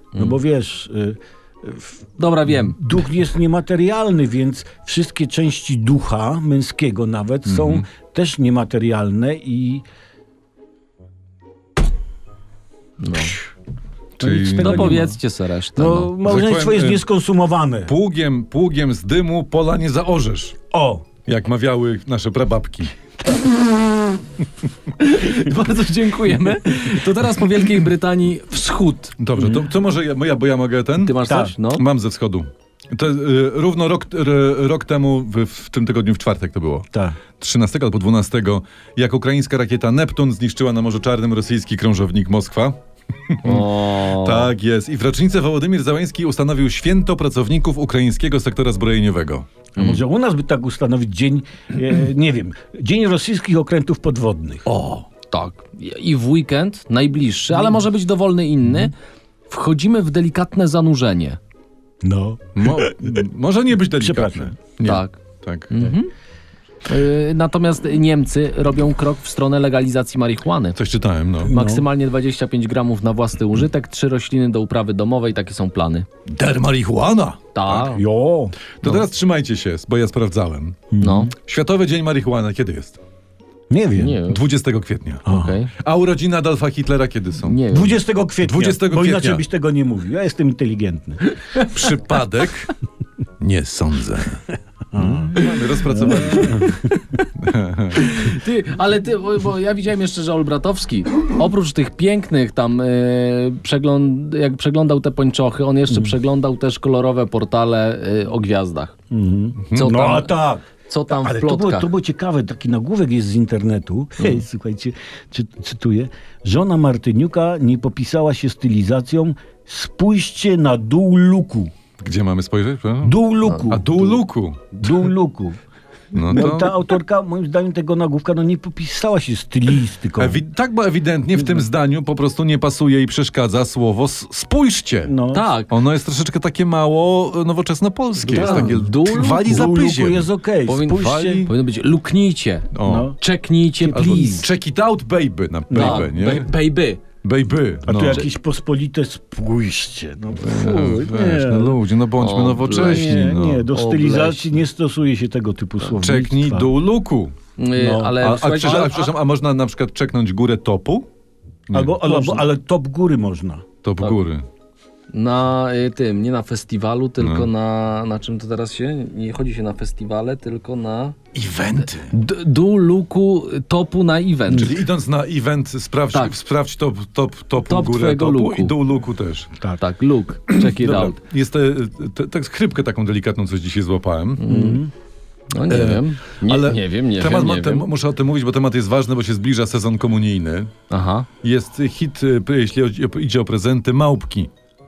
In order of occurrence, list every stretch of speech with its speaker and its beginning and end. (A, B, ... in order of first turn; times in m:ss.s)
0:00.2-0:02.0 A
0:02.2-0:02.8 B
0:02.7-0:09.8 A
0:07.5-0:07.8 C
0:13.0-0:13.4 B
0:14.2-0:15.1 C
0:14.2-0:15.2 A
0:14.5-0:16.1 B
0:15.8-0:17.9 A
0:16.2-0:17.0 C
0:17.9-0:20.6 C
0:20.7-0:21.1 A
0:21.2-0:22.9 C
0:25.0-0:29.2 B
0:29.2-0:42.8 C
0:29.4-0:29.6 A
0:31.0-0:31.8 B
0:31.2-0:31.6 A
0:43.3-0:49.5 C
0:43.4-0:44.5 B
0:49.8-0:50.0 B
0:49.8-0:54.7 A
0:55.1-0:58.9 B
0:59.5-1:01.4 B
1:02.0-1:03.3 A
1:02.6-1:05.9 C
1:04.0-1:04.5 A
1:04.8-1:05.2 B
1:05.7-1:06.1 B
1:06.9-1:10.8 B
1:10.8-1:11.6 C
1:11.5-1:11.8 A
1:11.5-1:16.1 B
1:16.3-1:17.8 C
1:17.6-1:18.0 B
1:17.7-1:18.6 A
1:18.8-1:23.0 C
1:20.9-1:21.3 A
1:21.0-1:21.3 B
1:23.7-1:24.2 A
1:24.0-1:24.4 B
1:24.2-1:27.6 C
1:25.3-1:25.6 A
1:25.3-1:25.7 B
1:27.5-1:28.0 B
1:27.7-1:31.2 A
1:28.4-1:29.4 C
1:31.6-1:32.7 C
1:33.4-1:34.4 C
1:34.9-1:36.8 A
1:35.0-1:36.8 C
1:36.2-1:37.2 B
1:37.4-1:38.1 C
1:38.0-1:48.9 B
1:49.1-2:01.7 A
1:49.6-1:50.0 C
1:49.7-1:50.4 B
1:50.9-1:51.9 B
2:02.0-2:05.0 C
2:03.0-2:05.6 A
2:06.1-2:06.8 C
2:06.2-2:10.4 A
2:10.2-2:15.1 C
2:15.1-2:15.5 A
2:15.3-2:15.7 B
2:15.7-2:20.3 C
2:18.3-2:19.6 B
2:18.3-2:18.8 A
2:19.4-2:21.5 A
2:20.7-2:24.5 B
2:20.9-2:21.5 C
2:22.7-2:23.1 C
2:22.9-2:23.2 A
2:23.8-2:24.5 A
2:23.9-2:26.5 C
2:25.7-2:26.1 A
2:25.7-2:27.0 B
2:27.2-2:28.3 C
2:27.9-2:31.8 A
2:28.0-2:28.3 B
2:30.4-2:33.7 C
2:32.2-2:34.6 B
2:32.7-2:36.7 A
2:36.0-2:37.4 C
2:37.6-2:39.1 B
2:37.8-2:39.1 A
2:38.2-2:41.1 C
2:41.7-2:42.4 C
2:41.7-2:43.6 A
2:43.8-2:44.5 C
2:45.1-2:51.2 B
2:47.2-2:47.5 C
2:51.3-2:52.2 C
2:52.1-2:54.8 B
2:54.5-2:59.5 C
2:57.6-2:58.7 B
2:59.8-3:01.2 B
3:00.5-3:04.4 C
3:04.4-3:04.8 B
3:04.5-3:04.9 A
3:05.5-3:07.9 B
3:05.7-3:10.8 C
3:10.9-3:11.3 B
3:11.4-3:14.5 C